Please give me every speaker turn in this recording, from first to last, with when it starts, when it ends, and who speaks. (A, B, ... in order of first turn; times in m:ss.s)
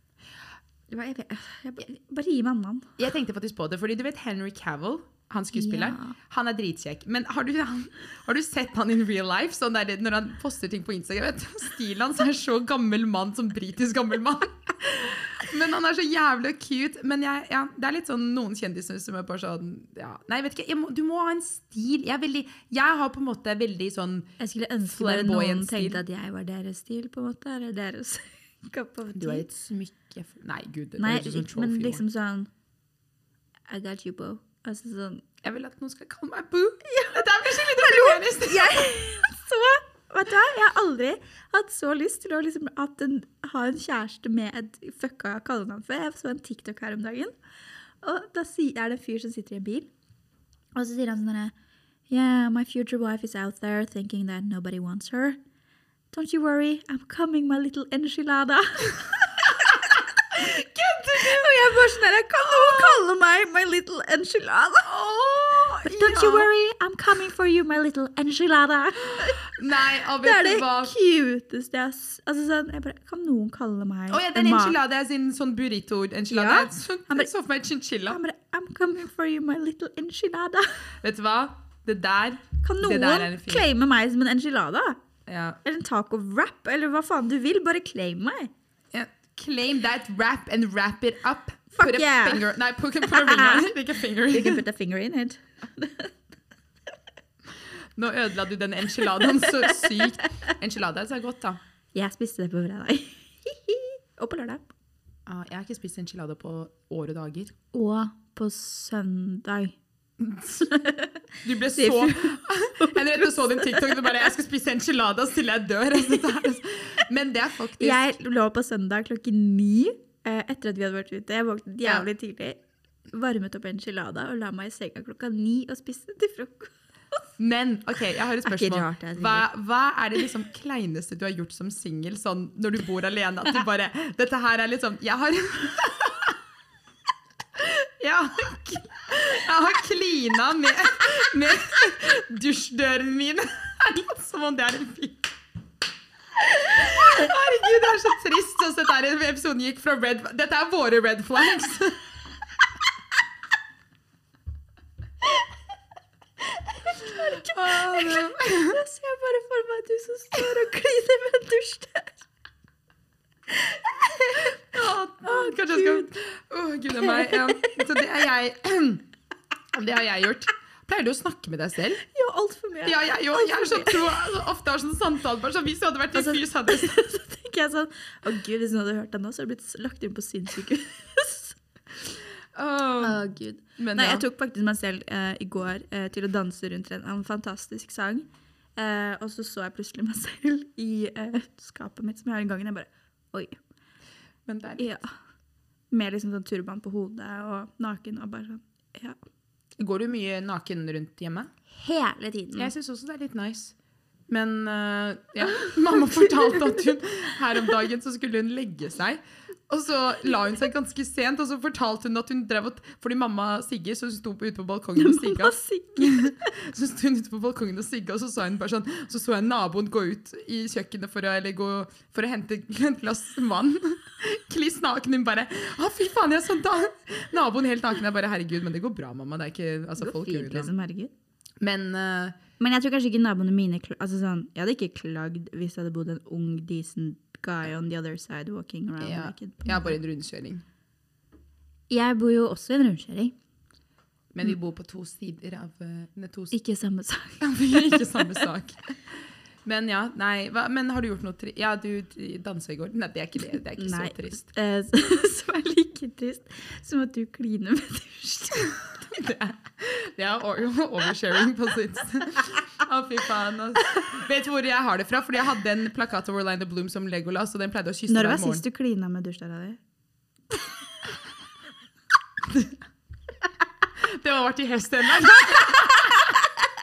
0:00.9-0:02.9 A
0:03.0-0:24.3 B
0:05.5-0:06.2 A
0:24.4-0:29.5 A
0:24.8-0:26.0 B
0:29.1-0:32.0 B
0:31.0-0:32.5 A
0:33.7-0:35.2 A
0:35.4-0:38.8 B
0:36.8-0:47.3 A
0:48.0-0:49.9 A
0:50.7-0:51.5 A
0:52.1-0:55.4 A
0:56.1-1:00.6 A
1:00.3-1:03.0 B
1:01.1-1:04.9 A
1:04.8-1:06.5 B
1:05.8-1:09.6 A
1:09.2-1:10.9 B
1:10.2-1:14.8 A
1:14.1-1:18.2 B
1:16.3-1:17.3 A
1:18.1-1:20.8 A
1:21.0-1:23.6 B
1:22.6-1:25.0 A
1:25.2-1:25.6 B
1:25.6-1:28.5 A
1:28.9-1:34.6 B
1:31.7-1:32.4 A
1:33.0-1:33.7 A
1:34.3-1:36.1 A
1:38.0-1:41.6 B
1:39.0-1:40.5 A
1:41.9-1:44.6 A
1:45.2-1:47.5 B
1:47.7-1:49.8 A
1:50.2-1:50.7 B
1:50.5-1:54.2 A
1:51.4-1:58.1 B
1:57.8-2:06.7 A
2:07.4-2:16.3 B
2:08.4-2:09.5 A
2:17.5-2:25.3 B
2:26.4-2:32.0 B
2:36.5-2:42.2 A
2:37.0-2:38.8 B
2:43.5-2:46.1 A
2:44.7-2:49.1 B
2:47.0-2:48.0 A
2:49.7-2:52.0 B
2:52.0-2:54.3 A
2:52.8-2:57.0 B
2:56.1-3:02.1 A
3:02.5-3:03.2 B
3:03.0-3:13.6 A
3:03.8-3:04.2 B
3:14.4-3:14.9 B
3:14.8-3:15.1 A
3:15.9-3:19.2 A
3:19.8-3:21.5 B
3:21.7-3:22.7 A
3:22.5-3:23.7 B
3:24.3-3:50.7 B
3:35.0-3:36.5 A
3:50.0-3:51.1 A
3:51.6-3:52.4 B
3:52.6-4:00.0 A
3:59.0-4:00.6 B
4:01.9-4:03.3 A
4:04.3-4:06.6 B
4:06.5-4:08.4 A
4:07.4-4:09.0 B
4:09.6-4:14.4 B
4:13.8-4:19.0 A
4:19.0-4:28.6 B
4:28.1-4:29.8 A
4:32.4-4:32.8 B
4:33.9-4:36.4 B